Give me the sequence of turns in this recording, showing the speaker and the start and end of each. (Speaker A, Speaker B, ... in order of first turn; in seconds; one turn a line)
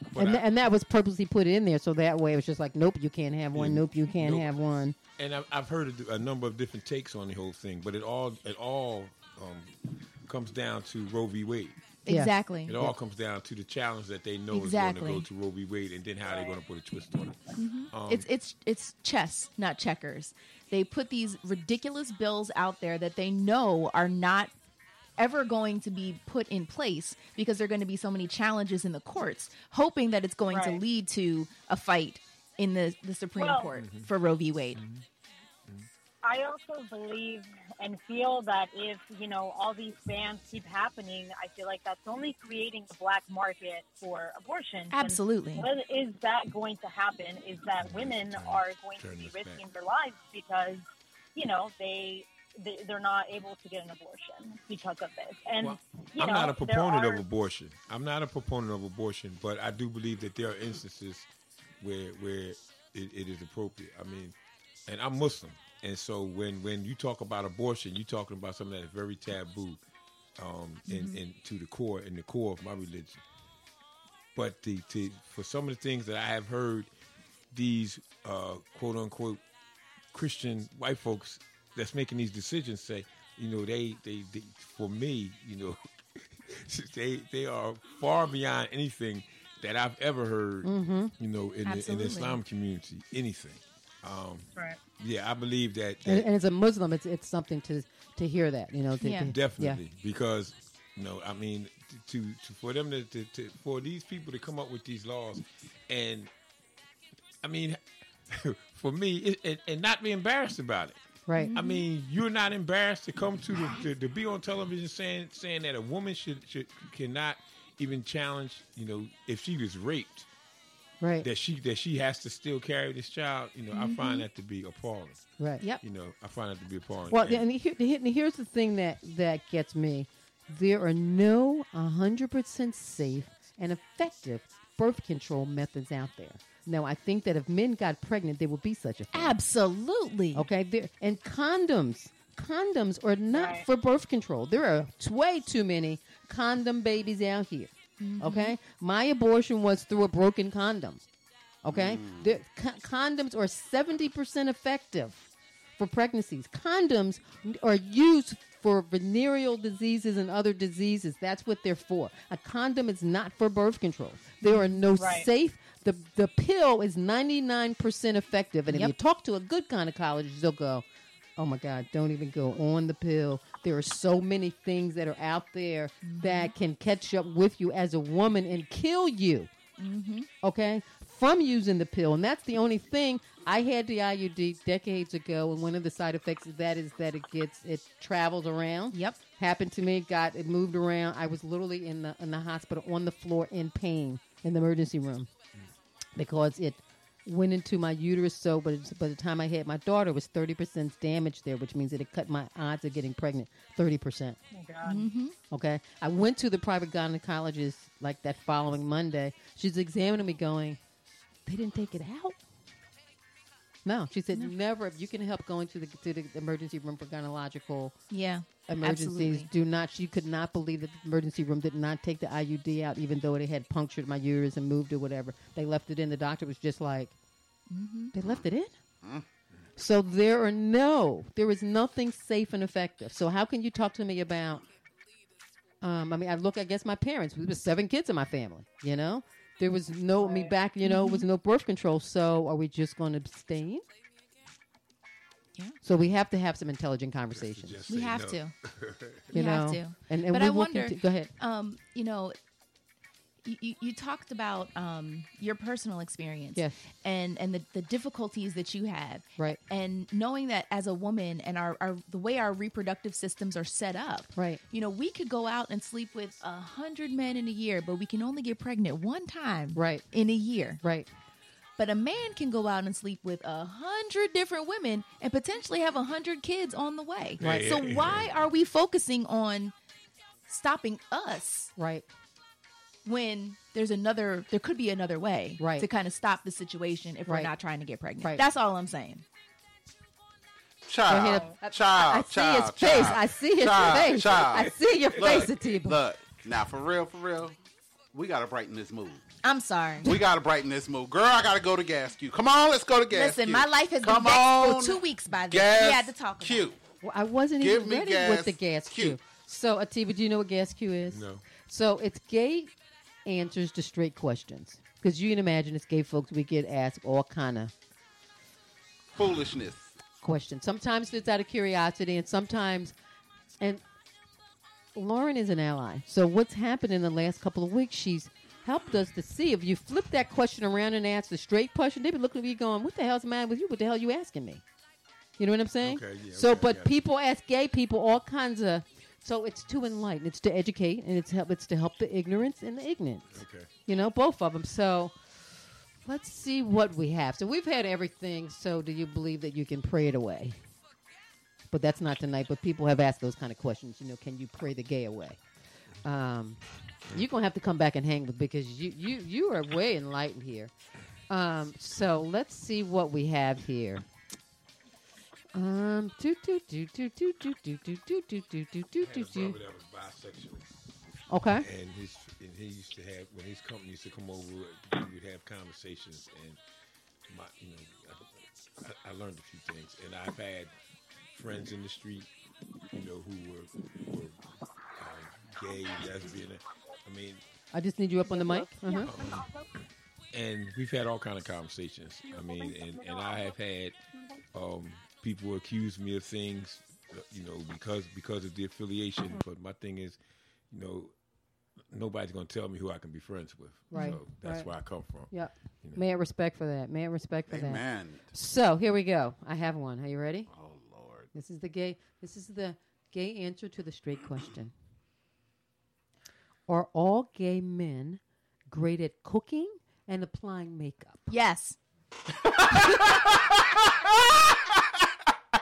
Speaker A: 0.1-0.4
Speaker B: 0.1-5.0
Speaker A: 3.5-4.5
Speaker A: 5.2-11.8
Speaker C: 12.1-12.8
Speaker B: 12.1-12.9
Speaker A: 12.7-18.3
Speaker C: 14.5-15.2
Speaker D: 16.2-16.6
Speaker C: 17.6-24.5
Speaker C: 25.2-34.8
Speaker D: 30.5-30.8
Speaker D: 33.4-33.8
Speaker A: 33.8-34.1
Speaker A: 34.8-35.0
Speaker D: 36.2-57.2
Speaker C: 44.9-45.7
Speaker A: 47.8-49.6
Speaker A: 55.6-61.3
Speaker A: 61.8-64.3
Speaker A: 64.9-69.8
Speaker A: 70.4-73.2
Speaker C: 70.9-71.2
Speaker A: 74.3-76.9
Speaker A: 77.5-79.4
Speaker A: 80.1-94.5
Speaker B: 90.6-91.1
Speaker C: 91.6-92.4
Speaker A: 95.0-96.3
Speaker B: 96.0-99.8
Speaker C: 99.0-99.3
Speaker A: 99.3-106.3
Speaker A: 107.4-111.0
Speaker B: 111.3-111.5
Speaker C: 111.3-111.8
Speaker A: 111.5-120.3
Speaker B: 121.0-121.2
Speaker A: 121.2-125.2
Speaker C: 123.7-124.2
Speaker A: 125.8-127.4
Speaker B: 127.1-139.3
Speaker C: 139.1-140.5
Speaker B: 140.3-151.0
Speaker D: 143.3-143.7
Speaker C: 148.0-148.5
Speaker B: 151.6-155.3
Speaker E: 151.7-152.4
Speaker B: 155.8-170.8
Speaker C: 164.4-164.7
Speaker D: 164.9-165.3
Speaker B: 171.4-179.5
Speaker C: 176.0-176.5
Speaker C: 179.8-180.3
Speaker B: 180.4-195.3
Speaker C: 188.9-189.2
Speaker B: 196.2-204.4
Speaker D: 204.5-205.1
Speaker C: 204.8-205.3
Speaker B: 205.5-210.8
Speaker B: 211.4-212.4
Speaker B: 213.8-217.9
Speaker C: 218.1-219.5
Speaker B: 218.7-227.1
Speaker C: 227.7-228.1
Speaker B: 228.1-228.7
Speaker B: 229.8-234.6
Speaker B: 235.8-243.8
Speaker D: 240.2-240.5
Speaker C: 240.8-241.2
Speaker B: 245.8-247.8
Speaker A: 247.3-249.3
Speaker C: 247.9-248.5
Speaker B: 249.3-251.3
Speaker C: 249.3-252.4
Speaker C: 253.4-270.8
Speaker B: 256.5-256.8
Speaker B: 264.3-264.6
Speaker B: 269.7-270.1
Speaker B: 270.8-271.1
Speaker C: 271.8-279.7
Speaker A: 277.4-278.3
Speaker B: 277.4-277.7
Speaker C: 280.5-281.7
Speaker B: 281.8-282.1
Speaker C: 283.0-289.2
Speaker B: 285.6-285.9
Speaker B: 287.2-287.5
Speaker E: 290.9-297.6
Speaker B: 291.1-296.0
Speaker D: 291.2-291.5
Speaker E: 298.1-299.3
Speaker C: 299.4-300.1
Speaker E: 300.0-306.8
Speaker C: 303.1-306.6
Speaker B: 307.0-312.7
Speaker E: 307.6-309.2
Speaker A: 311.1-311.4
Speaker B: 313.2-317.7
Speaker E: 319.1-319.9
Speaker B: 320.2-322.9
Speaker B: 324.9-334.6
Speaker B: 335.4-345.1
Speaker A: 335.8-336.9
Speaker A: 343.3-343.7
Speaker B: 346.0-350.6
Speaker B: 351.7-355.4
Speaker B: 356.0-360.7
Speaker B: 361.3-364.0
Speaker B: 365.5-369.6
Speaker A: 369.0-370.7
Speaker B: 371.3-371.7
Speaker A: 371.6-376.6
Speaker A: 377.3-380.7
Speaker A: 381.3-382.3
Speaker A: 382.9-384.4
Speaker A: 384.9-387.4
Speaker B: 387.7-389.1
Speaker D: 388.2-389.6
Speaker A: 389.0-389.5
Speaker A: 390.3-394.0
Speaker D: 392.3-393.5
Speaker A: 394.5-400.2
Speaker A: 400.7-401.1
Speaker A: 401.9-405.3
Speaker B: 403.9-404.7
Speaker B: 405.3-410.5
Speaker E: 407.5-408.3
Speaker E: 410.5-411.3
Speaker B: 411.3-414.7
Speaker B: 416.7-421.3
Speaker C: 421.3-421.8
Speaker E: 422.4-425.3